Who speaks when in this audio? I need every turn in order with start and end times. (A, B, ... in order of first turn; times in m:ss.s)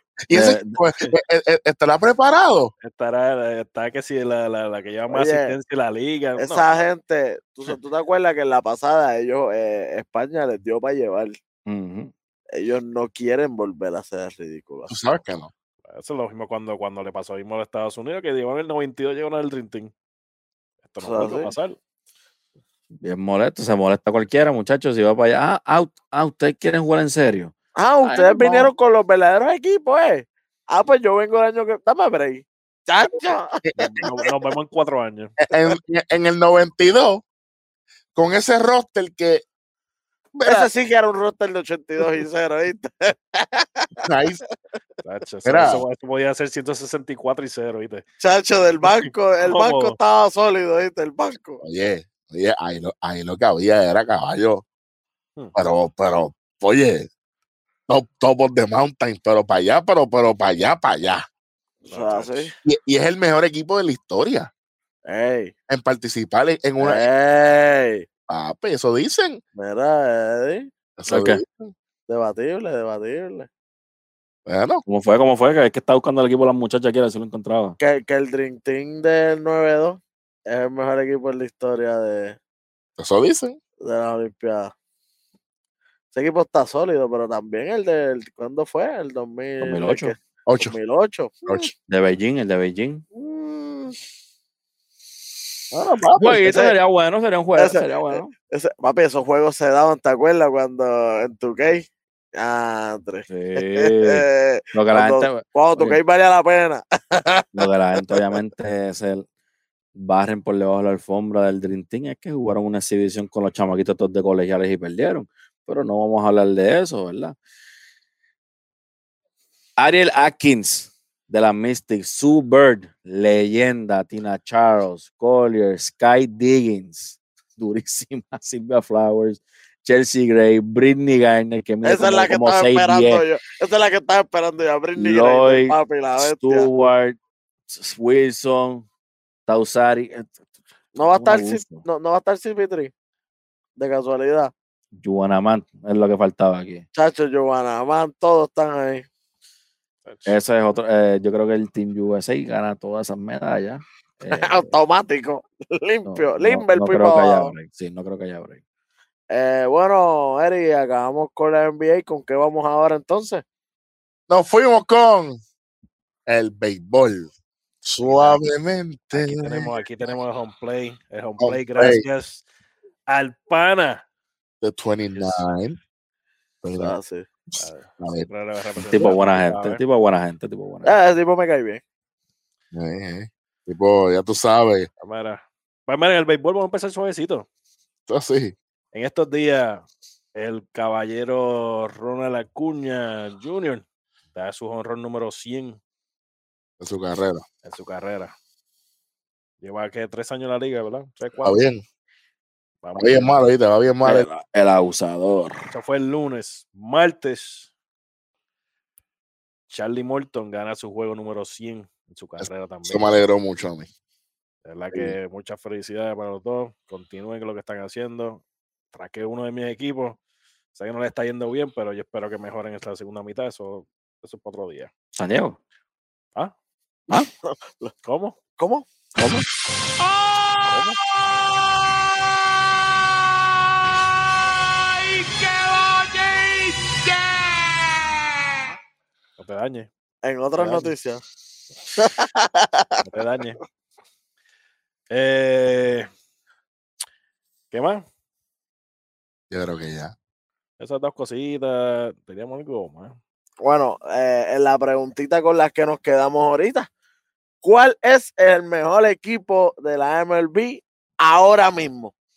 0:00.3-0:02.7 A
0:00.3-0:00.8 B
0:02.8-0:06.8 C
0:05.1-0:05.6 D
0:06.4-0:11.4 D
0:11.7-0:12.1 B
0:12.5-0:15.0 D
0:14.9-0:15.5 A
0:15.9-0:19.9 C
0:20.8-0:21.8 C
0:21.0-0:21.5 D
0:23.0-0:28.7 B
0:27.8-0:34.3 D
0:33.6-0:34.1 A
0:34.0-0:35.4 C
0:35.4-0:37.2 A
0:38.2-0:39.4 A
0:40.3-0:40.7 A
0:40.5-0:44.0 D
0:44.1-0:44.4 A
0:45.0-0:48.0 C
0:45.4-0:45.8 A
0:48.2-0:51.6 D
0:48.8-0:50.0 C
0:51.6-0:54.6 A
0:55.6-0:57.1 A
0:57.9-1:01.2 A
1:01.8-1:02.5 D
1:01.9-1:02.5 C
1:02.6-1:04.5 A
1:05.1-1:05.5 D
1:05.7-1:07.1 A
1:06.8-1:08.0 D
1:08.3-1:09.4 A
1:09.6-1:10.7 D
1:11.0-1:11.7 A
1:11.1-1:11.4 B
1:12.1-1:13.5 D
1:14.5-1:14.8 A
1:14.9-1:17.8 B
1:17.8-1:22.4 D
1:23.0-1:23.6 A
1:23.8-1:24.7 D
1:26.2-1:31.7 D
1:29.6-1:30.1 B
1:30.5-1:30.7 A
1:31.9-1:33.0 B
1:33.1-1:34.0 D
1:35.7-1:36.7 D
1:36.2-1:38.3 B
1:37.6-1:47.6 D
1:43.3-1:46.0 B
1:47.5-1:49.3 B
1:50.0-1:57.4 B
1:59.8-2:13.2 B
2:11.8-2:16.7 D
2:15.0-2:18.9 B
2:19.5-2:20.4 B
2:21.0-2:22.9 D
2:21.0-2:21.8 B
2:23.8-2:24.5 D
2:25.0-2:26.8 B
2:27.0-2:29.1 D
2:30.0-2:30.4 C
2:30.3-2:34.7 B
2:34.3-2:37.5 D
2:36.0-2:38.6 B
2:39.3-2:43.4 D
2:44.3-2:45.4 A
2:46.3-2:47.3 A
2:47.8-2:49.8 A
2:49.1-2:52.4 C
2:51.4-2:52.0 A
2:53.1-2:54.0 C
2:54.6-2:55.8 A
2:55.2-2:55.4 C
2:56.6-2:57.0 A
2:56.8-2:57.3 D
2:57.5-2:58.3 A
2:57.6-2:59.8 C
2:58.8-3:01.0 B
3:00.8-3:01.8 D
3:02.7-3:04.9 A
3:05.0-3:07.5 C
3:08.1-3:08.6 A
3:08.9-3:15.8 C
3:16.8-3:17.4 A
3:17.6-3:18.3 C
3:19.6-3:21.6 C
3:21.4-3:21.8 A
3:22.8-3:23.4 C
3:23.0-3:24.3 A
3:24.1-3:25.7 B
3:25.7-3:27.7 C
3:29.7-3:33.1 C
3:32.4-3:33.9 A
3:34.6-3:38.4 C
3:38.9-3:40.2 C
3:40.8-3:44.9 C
3:45.2-3:45.6 B
3:47.4-3:47.9 D
3:48.0-3:48.4 C
3:48.6-3:48.9 D
3:49.2-3:49.4 B
3:50.6-3:51.0 C
3:56.0-3:56.6 C
3:59.4-3:59.9 C
4:00.2-4:01.2 D
4:00.6-4:00.9 C
4:02.0-4:03.0 D
4:03.0-4:03.6 C
4:05.1-4:06.1 C
4:07.7-4:08.0 C
4:09.5-4:10.1 A
4:10.8-4:13.2 C
4:13.6-4:16.9 D
4:17.6-4:22.1 D